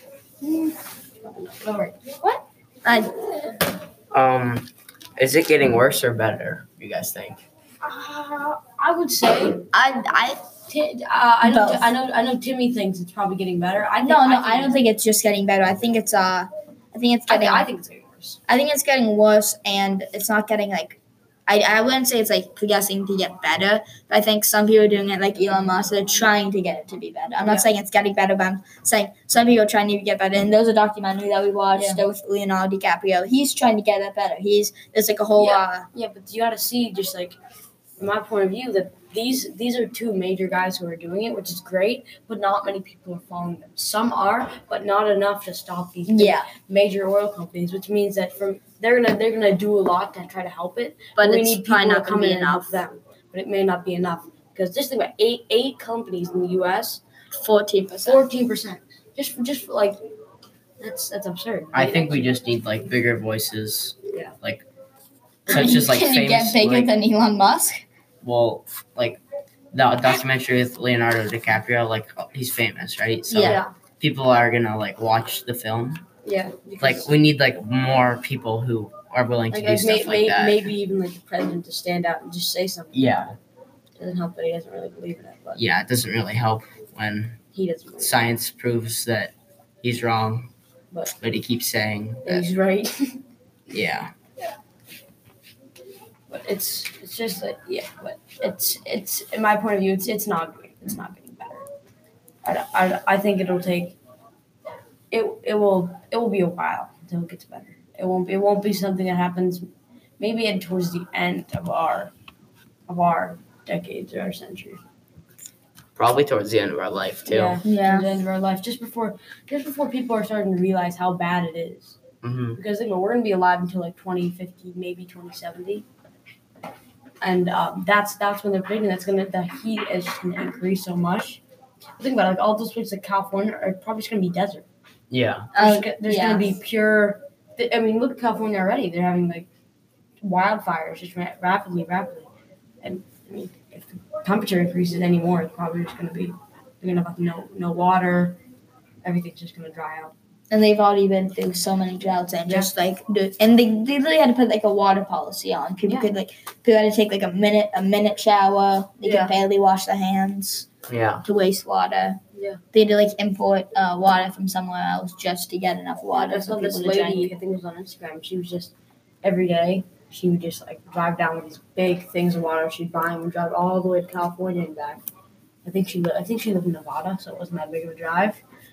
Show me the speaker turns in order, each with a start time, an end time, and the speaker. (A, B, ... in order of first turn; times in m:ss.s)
0:00.4-0:02.4 A
0:02.8-0:03.1 B
0:04.1-0:07.4 C
0:07.8-0:09.7 A
0:09.7-0:10.4 B
0:10.7-0:14.8 A
0:11.4-0:11.9 B
0:14.0-0:17.7 B
0:17.3-0:18.4 A
0:18.5-0:35.9 B
0:31.8-0:32.0 A
0:35.4-0:37.4 A
0:38.0-0:57.0 A
0:46.0-0:46.5 B
0:51.2-0:52.6 B
0:57.3-0:58.2 B
0:58.0-1:00.0 A
1:00.8-1:02.3 A
1:01.7-1:04.6 C
1:05.5-1:06.9 C
1:05.5-1:07.8 B
1:08.2-1:09.2 C
1:09.7-1:16.0 C
1:13.3-1:13.6 B
1:13.4-1:13.7 A
1:16.2-1:17.1 A
1:16.8-1:20.6 C
1:19.5-1:23.2 A
1:22.9-1:23.3 C
1:24.0-1:25.6 A
1:25.5-1:27.4 C
1:27.5-1:28.2 A
1:28.0-1:30.5 C
1:31.2-1:32.4 C
1:32.2-1:33.2 A
1:33.7-1:34.1 C
1:36.3-1:41.6 A
1:42.4-1:44.0 A
1:45.1-1:49.6 A
1:50.2-1:52.1 A
1:52.9-1:54.8 A
1:56.0-1:57.6 C
1:57.2-2:01.9 A
1:57.6-1:58.2 B
2:02.2-2:02.6 C
2:02.6-2:05.8 A
2:07.2-2:11.4 A
2:12.0-2:14.7 A
2:15.1-2:15.5 C
2:15.5-2:16.5 B
2:15.6-2:19.5 A
2:20.2-2:22.3 A
2:22.8-2:28.4 A
2:29.0-2:30.1 A
2:30.5-2:40.7 B
2:35.8-2:36.1 A
2:39.0-2:39.4 A
2:40.9-2:41.2 C
2:41.2-2:42.2 B
2:42.3-2:42.6 A
2:42.7-2:47.3 B
2:46.1-2:55.0 A
2:55.6-2:58.4 A